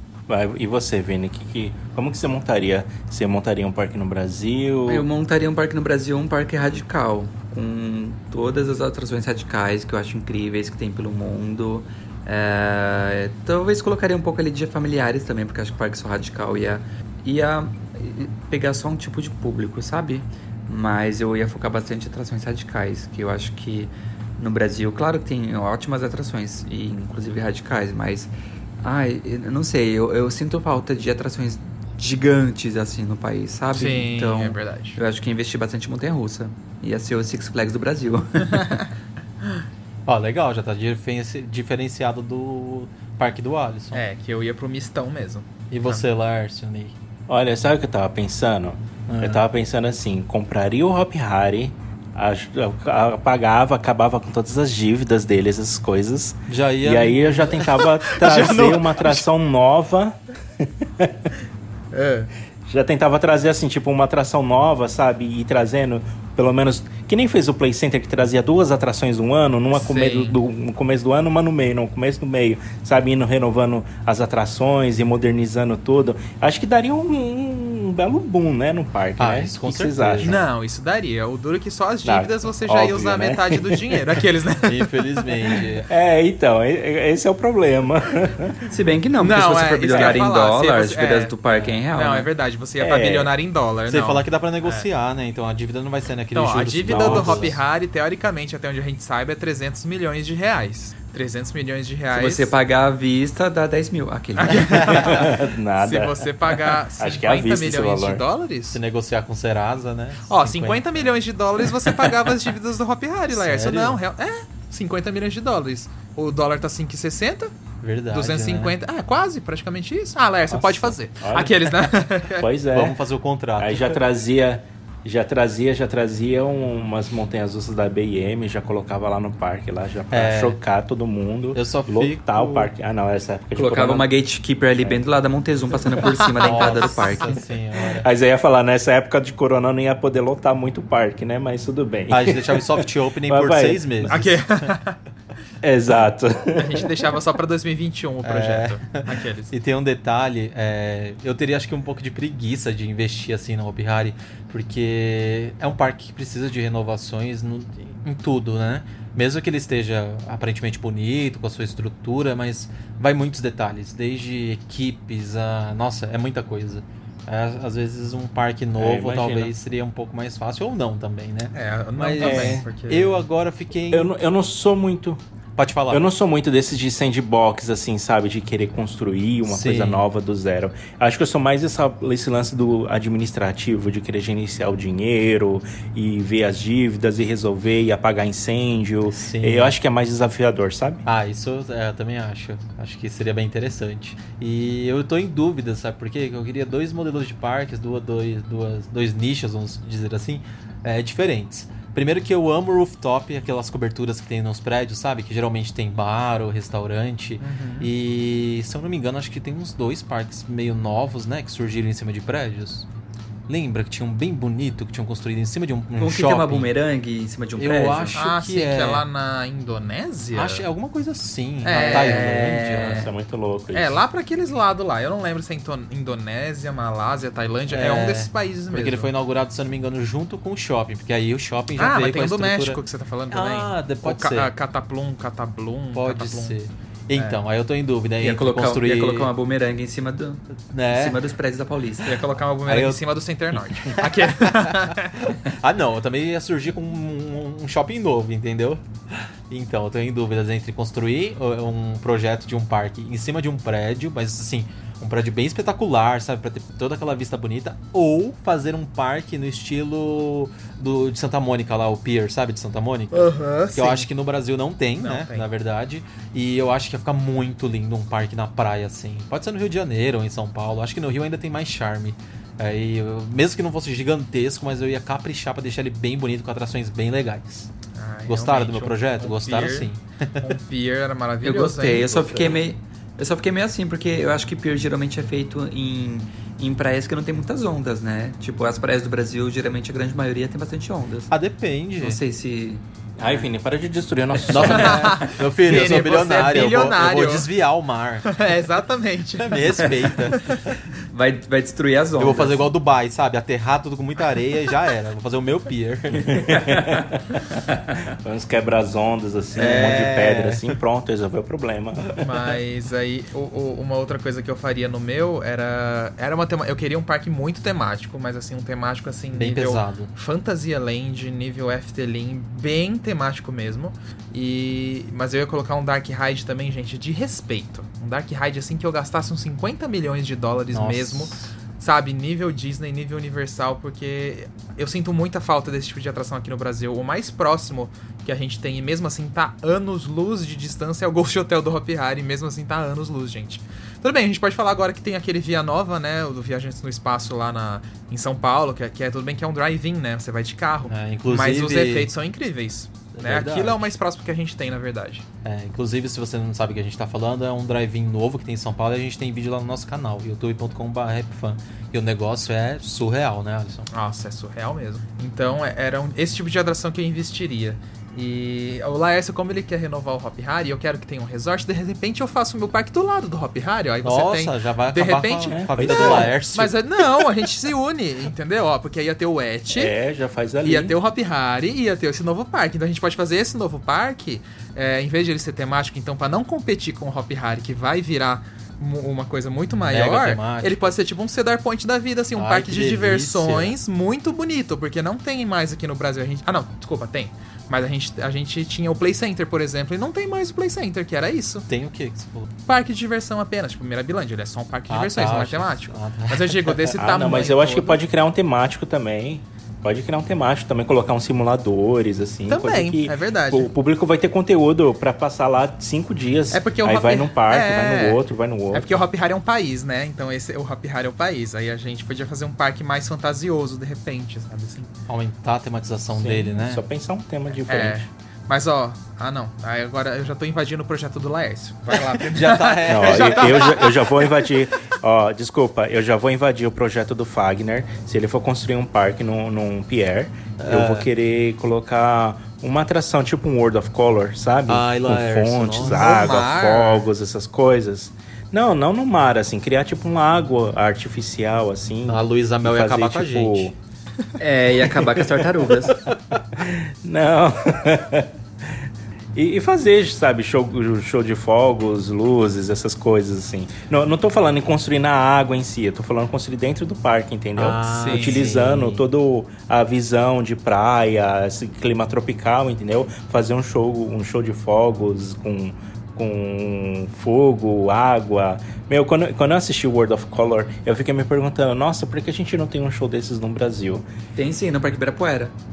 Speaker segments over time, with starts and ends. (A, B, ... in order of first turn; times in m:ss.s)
0:00.3-0:05.0 A
0:04.9-0:38.8 B
0:33.7-0:35.0 C
0:40.1-0:44.0 D
0:43.9-0:46.0 C
0:45.7-0:46.9 D
0:47.3-1:01.2 A
0:49.1-0:49.4 D
0:56.5-0:57.7 D
0:57.7-0:59.2 C
1:01.9-1:02.3 C
1:02.7-1:20.4 A
1:09.7-1:10.4 C
1:19.2-1:20.4 D
1:20.2-1:25.5 C
1:22.0-1:24.1 A
1:24.6-1:25.9 D
1:25.9-1:28.6 A
1:28.7-1:32.3 B
1:29.2-1:31.4 C
1:29.9-1:30.2 A
1:31.9-1:34.9 C
1:32.8-1:33.3 A
1:33.9-1:37.6 D
1:36.3-1:42.5 C
1:36.8-1:37.5 A
1:42.1-1:45.1 B
1:44.4-1:48.8 C
1:44.8-1:48.2 A
1:48.7-1:51.1 D
1:50.3-1:57.5 C
1:53.3-1:54.0 D
1:57.8-1:58.7 D
1:58.1-2:02.4 C
2:00.5-2:01.6 A
2:02.4-2:03.0 A
2:02.7-2:03.9 D
2:03.6-2:14.1 A
2:10.1-2:10.6 D
2:11.5-2:12.7 D
2:13.6-2:17.4 B
2:16.2-2:17.2 C
2:16.4-2:18.1 D
2:18.0-2:23.8 A
2:22.1-2:24.5 D
2:24.0-2:25.0 C
2:25.6-2:26.9 A
2:26.6-2:29.5 C
2:28.2-2:54.1 D
2:48.8-2:49.5 A
2:51.5-2:53.3 C
2:52.2-2:52.6 A
2:53.9-2:55.2 A
2:55.6-2:56.0 D
2:55.9-3:11.0 A
2:59.4-3:00.0 D
3:09.1-3:09.7 D
3:11.0-3:32.8 D
3:27.4-3:27.9 C
3:33.5-3:36.7 D
3:36.0-3:38.2 B
3:37.6-3:39.0 D
3:38.1-3:40.6 C
3:40.3-3:43.1 D
3:41.6-3:42.4 C
3:41.7-3:43.1 B
3:43.0-3:44.0 A
3:43.7-3:49.1 C
3:47.7-3:54.5 D
3:51.8-3:56.6 C
3:55.9-3:59.3 D
3:58.2-4:02.2 B
4:00.6-4:01.2 D
4:02.0-4:05.2 C
4:02.7-4:03.0 D
4:03.8-4:04.7 D
4:05.3-4:37.7 D
4:23.1-4:24.1 C
4:25.0-4:25.5 C
4:37.9-4:42.3 C
4:38.2-4:40.6 D
4:41.4-4:51.3 B
4:51.3-4:52.2 D
4:52.0-4:53.5 B
4:53.2-4:55.1 A
4:54.5-4:54.8 B
4:54.5-4:58.2 D
4:54.7-4:57.5 C
4:58.2-5:00.6 C
4:59.4-5:00.5 D
4:59.8-5:00.1 B
5:01.1-5:02.7 B
5:02.2-5:06.2 D
5:06.3-5:07.2 A
5:06.3-5:07.0 B
5:08.2-5:12.2 A
5:09.5-5:10.6 D
5:12.2-5:55.2 C
5:19.3-5:20.1 D
5:30.7-5:31.5 D
5:50.9-5:52.1 D
5:53.1-5:54.0 D
5:55.4-6:03.9 D
6:03.9-6:19.9 C
6:14.0-6:16.8 D
6:15.5-6:16.3 A
6:19.7-6:20.9 A
6:20.6-6:41.7 C
6:29.8-6:30.8 D
6:32.3-6:33.7 D
6:41.7-6:42.5 D
6:42.6-6:48.0 C
6:44.9-6:47.0 D
6:47.0-6:58.9 A
6:52.5-6:53.7 C
6:56.5-7:04.9 C
7:05.1-7:06.8 D
7:06.1-7:08.1 A
7:07.6-7:14.0 C
7:12.0-7:13.9 D
7:12.9-7:33.7 A
7:20.6-7:21.1 D
7:24.7-7:26.3 D
7:25.8-7:27.0 C
7:32.1-7:33.7 D
7:34.4-7:36.0 B
7:35.8-7:36.1 D
7:36.6-8:04.0 A
7:47.6-7:49.0 D
7:47.9-7:48.5 C
8:04.4-8:05.5 B